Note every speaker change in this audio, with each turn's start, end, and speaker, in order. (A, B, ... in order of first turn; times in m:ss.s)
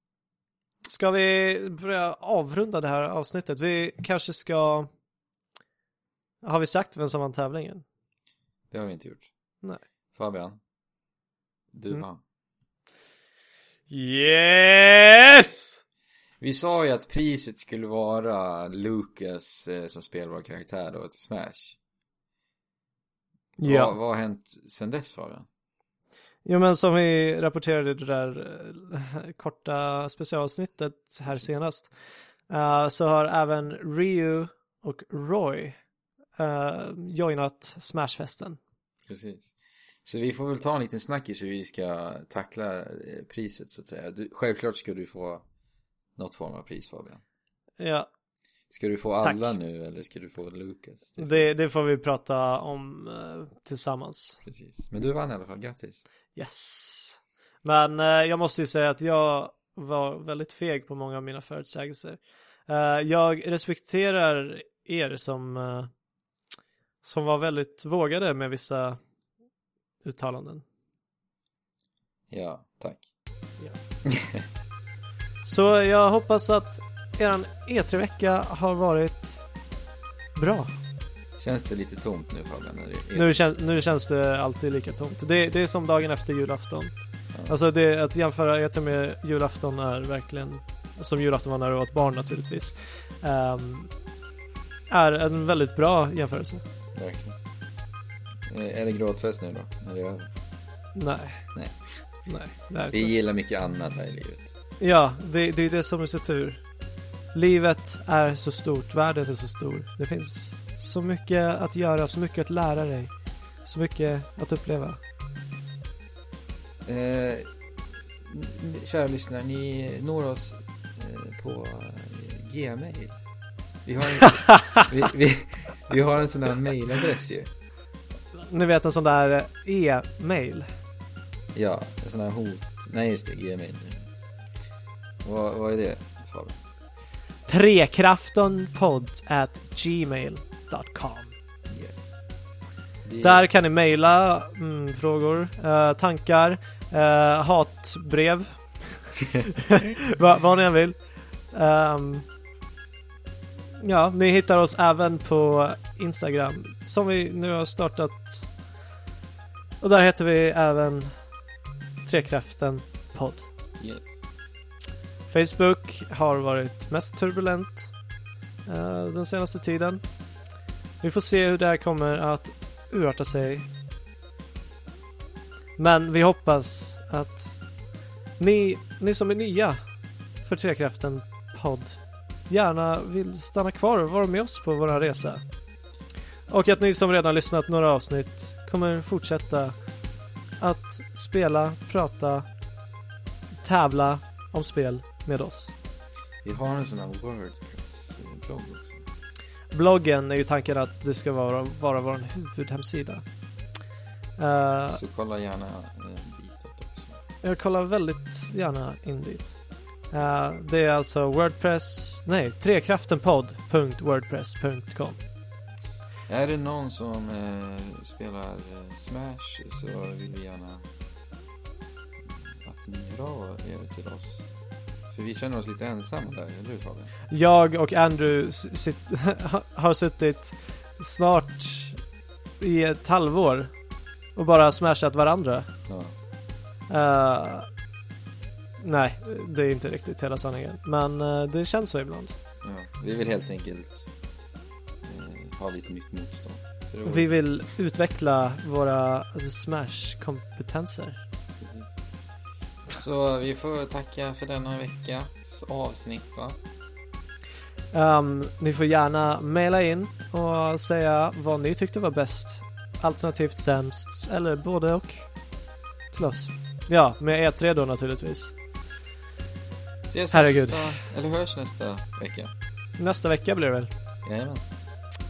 0:00.8-0:04.9 A
0:06.4-0:07.8 A
0:08.7-0:09.3 B
0:10.1-0:10.6 B
0:11.7-0:12.2 B
0:13.9-0:15.8 A
0:16.4-0:21.8 B
0:23.6-0:23.9 A
0:23.6-0:25.5 B
0:26.4-0:31.9 A
0:32.5-0:35.7 A
0:36.4-0:38.6 A
0:39.1-0:45.4 B
0:46.2-0:47.2 B
0:47.8-0:48.1 A
0:48.7-0:51.5 B
0:49.2-0:49.5 A
0:51.2-0:54.4 A
0:54.4-0:56.0 B
0:56.3-1:05.9 A
1:07.0-1:09.0 A
1:10.0-1:10.6 A
1:12.3-1:13.1 B
1:14.0-1:14.4 B
1:15.4-1:19.4 A
1:20.4-1:20.7 A
1:21.4-1:23.4 B
1:23.1-1:26.9 A
1:27.5-1:33.9 A
1:34.9-1:36.6 A
1:36.9-1:37.4 B
1:38.5-1:40.3 B
1:40.9-1:41.5 A
1:41.5-1:42.0 B
1:42.3-1:43.1 A
1:42.9-1:44.5 B
1:44.8-1:46.6 A
1:47.3-1:53.1 A
1:53.6-1:55.0 A
1:56.8-1:57.5 B
1:58.2-2:03.2 B
2:03.8-2:07.5 B
2:04.3-2:04.8 A
2:08.4-2:10.7 A
2:11.5-2:14.1 B
2:15.2-2:16.6 B
2:17.5-2:21.3 A
2:21.7-2:22.2 B
2:23.0-2:23.5 B
2:23.2-2:31.0 A
2:31.5-2:32.2 A
2:33.8-2:38.5 A
2:39.8-2:41.1 A
2:42.0-2:43.5 A
2:43.8-2:44.4 B
2:45.3-2:47.9 A
2:48.6-2:50.0 A
2:51.0-2:53.6 A
2:55.8-2:57.6 A
2:58.4-2:59.8 A
3:00.4-3:05.4 A
3:06.5-3:09.7 A
3:10.6-3:12.4 A
3:13.6-3:15.7 A
3:16.4-3:19.0 B
3:19.7-3:23.2 A
3:24.4-3:25.0 A
3:24.9-3:27.2 B
3:27.4-3:29.6 A
3:30.1-3:35.2 A
3:36.3-3:40.9 B
3:42.2-3:44.5 B
3:45.1-3:47.1 B
3:47.3-3:52.0 A
3:52.6-3:53.7 A
3:54.4-3:55.7 A
3:55.9-3:56.1 B
3:56.9-3:57.7 A
3:58.8-4:02.3 A
4:02.6-4:04.1 B
4:05.0-4:07.4 B
4:07.0-4:11.2 A
4:11.6-4:12.0 B
4:12.9-4:16.6 B
4:17.9-4:25.3 A
4:26.1-4:28.5 A
4:30.0-4:32.5 B
4:30.3-4:31.0 A
4:33.0-4:33.9 A
4:34.2-4:34.6 B